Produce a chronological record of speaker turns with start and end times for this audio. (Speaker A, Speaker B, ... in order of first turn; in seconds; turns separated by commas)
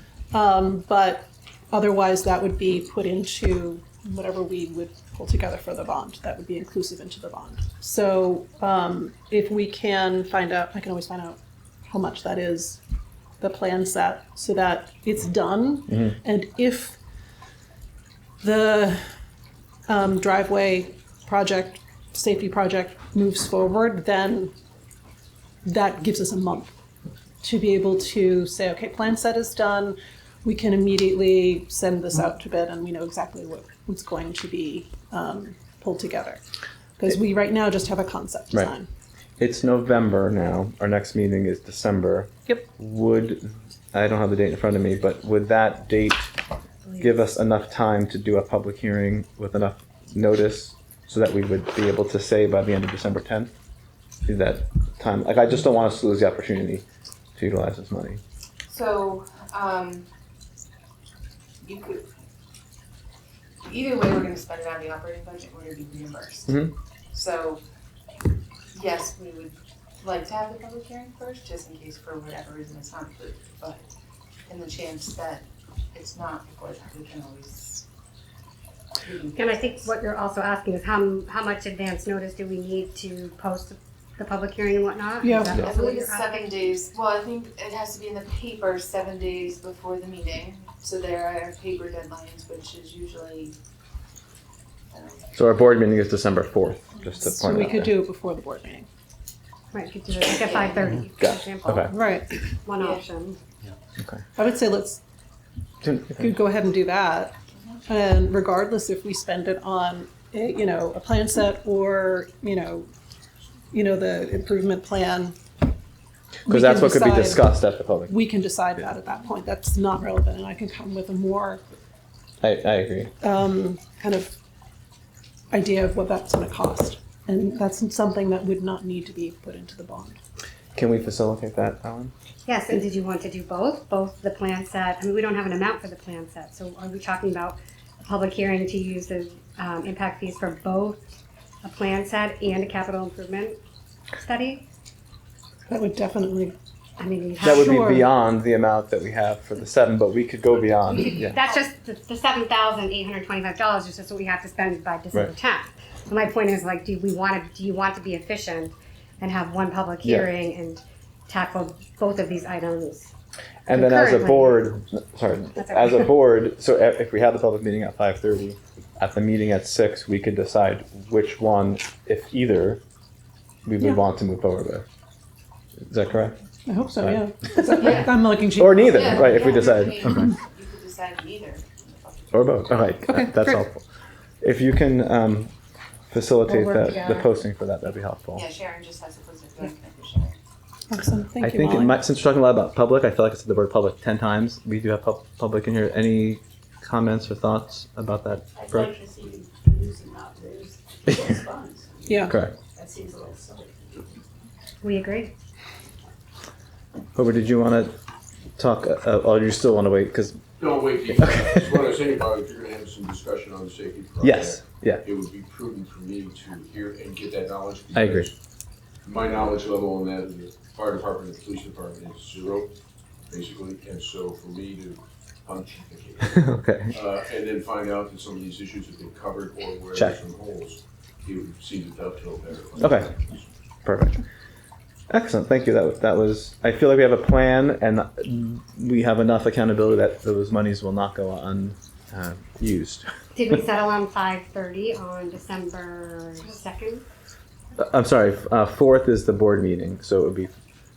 Speaker A: 0.3-12.8, Speaker A: 13.4-16.9, Speaker A: 18.4-19.0, Speaker A: 19.9-24.5, Speaker A: 25.6-26.7, Speaker A: 27.4-36.4, Speaker A: 37.0-38.9, Speaker B: 39.4-46.3, Speaker B: 47.0-53.5, Speaker B: 54.2-56.8, Speaker B: 57.4-58.2, Speaker C: 58.7-60.1, Speaker C: 61.6-62.1, Speaker C: 63.6-66.6, Speaker B: 66.5-66.7, Speaker C: 67.1-67.6, Speaker C: 68.7-73.8, Speaker C: 74.5-77.8, Speaker C: 79.0-79.9, Speaker D: 79.3-86.4, Speaker A: 85.2-85.6, Speaker C: 85.5-93.5, Speaker C: 94.9-95.3, Speaker B: 95.3-97.9, Speaker A: 97.3-98.9, Speaker D: 99.7-102.0, Speaker C: 100.4-101.0, Speaker B: 101.2-101.9, Speaker A: 101.9-102.3, Speaker D: 102.6-103.4, Speaker C: 102.8-103.0, Speaker A: 104.3-105.0, Speaker B: 105.8-106.4, Speaker A: 106.2-107.3, Speaker A: 107.9-112.9, Speaker A: 113.7-115.4, Speaker B: 116.5-118.1, Speaker A: 116.5-121.7, Speaker B: 122.4-123.1, Speaker A: 123.2-124.3, Speaker A: 125.5-130.2, Speaker B: 130.7-132.1, Speaker D: 132.4-143.6, Speaker D: 144.2-144.6, Speaker A: 145.7-146.5, Speaker D: 147.0-147.7, Speaker B: 147.4-151.4, Speaker A: 147.4-148.1, Speaker D: 150.9-163.1, Speaker B: 163.7-172.8, Speaker D: 163.7-164.6, Speaker D: 165.6-166.0, Speaker B: 173.6-174.8, Speaker B: 175.8-176.4, Speaker A: 176.7-180.3, Speaker B: 176.9-177.9, Speaker C: 177.8-182.9, Speaker B: 178.6-180.3, Speaker B: 182.3-183.8, Speaker A: 183.1-183.6, Speaker B: 184.4-185.5, Speaker B: 186.1-188.4, Speaker A: 186.5-186.9, Speaker C: 188.3-190.4, Speaker A: 190.9-192.0, Speaker B: 191.4-198.9, Speaker E: 198.5-204.3, Speaker A: 202.1-202.3, Speaker B: 202.3-202.5, Speaker D: 204.8-205.3, Speaker B: 207.1-207.9, Speaker B: 208.6-210.4, Speaker F: 210.6-218.3, Speaker B: 211.2-211.7, Speaker B: 214.2-215.0, Speaker B: 217.9-218.3, Speaker F: 219.0-222.7, Speaker F: 223.3-233.4, Speaker B: 226.2-226.9, Speaker B: 232.8-233.2, Speaker B: 233.8-234.2, Speaker B: 235.1-243.1, Speaker D: 243.3-247.0, Speaker B: 247.8-250.5